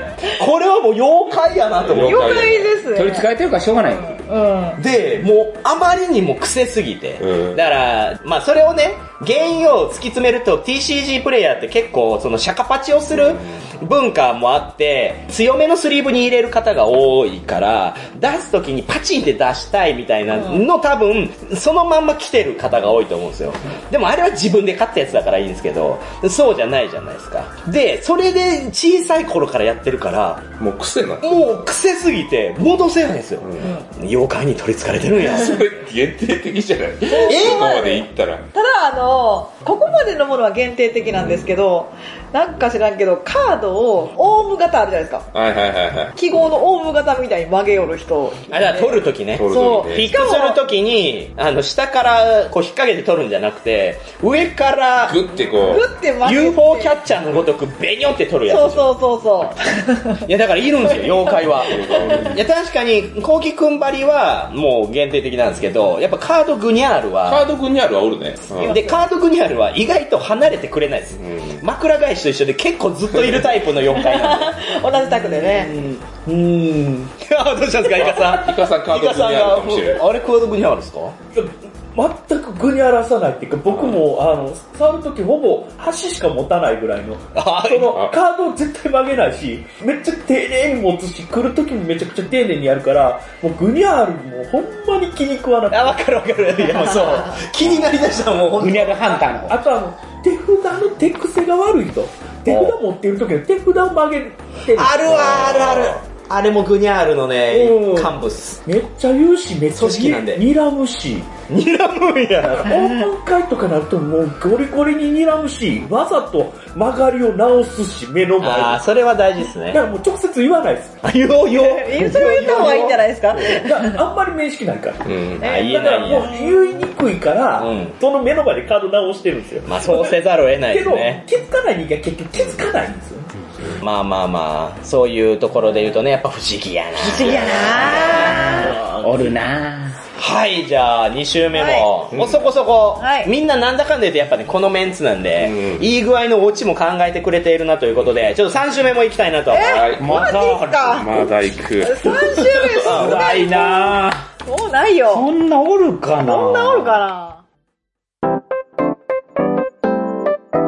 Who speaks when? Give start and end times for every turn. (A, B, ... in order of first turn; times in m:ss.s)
0:00.3-0:02.4 A
0:01.8-0:02.8 B
0:02.0-0:03.3 C
0:02.9-0:04.2 D
0:03.9-0:04.8 C
0:04.8-0:30.5 A
0:07.2-0:07.6 B
0:13.1-0:13.6 B
0:30.6-0:31.6 B
0:31.2-0:35.6 A
0:33.4-0:33.8 B
0:35.2-0:38.5 B
0:37.0-0:45.3 C
0:37.2-0:37.7 A
0:41.0-0:41.5 B
0:45.3-0:46.1 B
0:46.1-0:50.6 C
0:48.5-0:55.3 A
0:49.3-0:50.2 B
0:55.0-0:55.9 B
0:55.6-0:57.0 C
0:56.2-0:58.9 A
0:58.5-1:00.3 C
1:00.2-1:07.4 A
1:01.0-1:02.4 C
1:01.6-1:02.4 B
1:07.2-1:08.8 B
1:08.5-1:09.0 C
1:08.6-1:14.5 A
1:11.1-1:11.6 B
1:13.1-1:13.6 B
1:13.9-1:15.8 C
1:15.0-1:17.1 E
1:17.2-1:21.2 A
1:17.9-1:20.1 B
1:21.3-1:36.0 E
1:27.3-1:28.0 A
1:27.9-1:28.2 B
1:35.7-1:39.2 A
1:38.5-1:39.6 D
1:39.5-1:45.2 E
1:42.5-1:42.8 A
1:44.7-1:48.6 A
1:45.0-1:46.0 B
1:47.5-1:51.3 E
1:49.7-1:50.4 A
1:51.5-1:52.8 A
1:52.4-1:58.8 E
1:58.4-1:59.8 A
1:59.7-2:01.0 E
2:01.0-2:03.0 A
2:01.5-2:04.0 C
2:02.2-2:10.2 E
2:05.0-2:05.4 B
2:05.4-2:06.3 A
2:05.4-2:06.6 C
2:07.6-2:08.0 A
2:09.6-2:11.2 A
2:10.7-2:13.3 E
2:13.8-2:18.6 A
2:17.0-2:18.7 C
2:17.1-2:18.1 B
2:18.2-2:19.4 E
2:18.5-2:20.0 D
2:20.2-2:29.8 A
2:21.5-2:21.9 C
2:22.1-2:22.4 B
2:23.0-2:23.3 C
2:25.4-2:25.9 B
2:29.5-2:31.2 C
2:29.6-2:32.1 B
2:30.0-2:31.0 D
2:31.8-2:35.3 C
2:32.3-2:33.0 E
2:32.8-2:34.2 D
2:35.1-2:37.0 D
2:36.2-2:37.4 C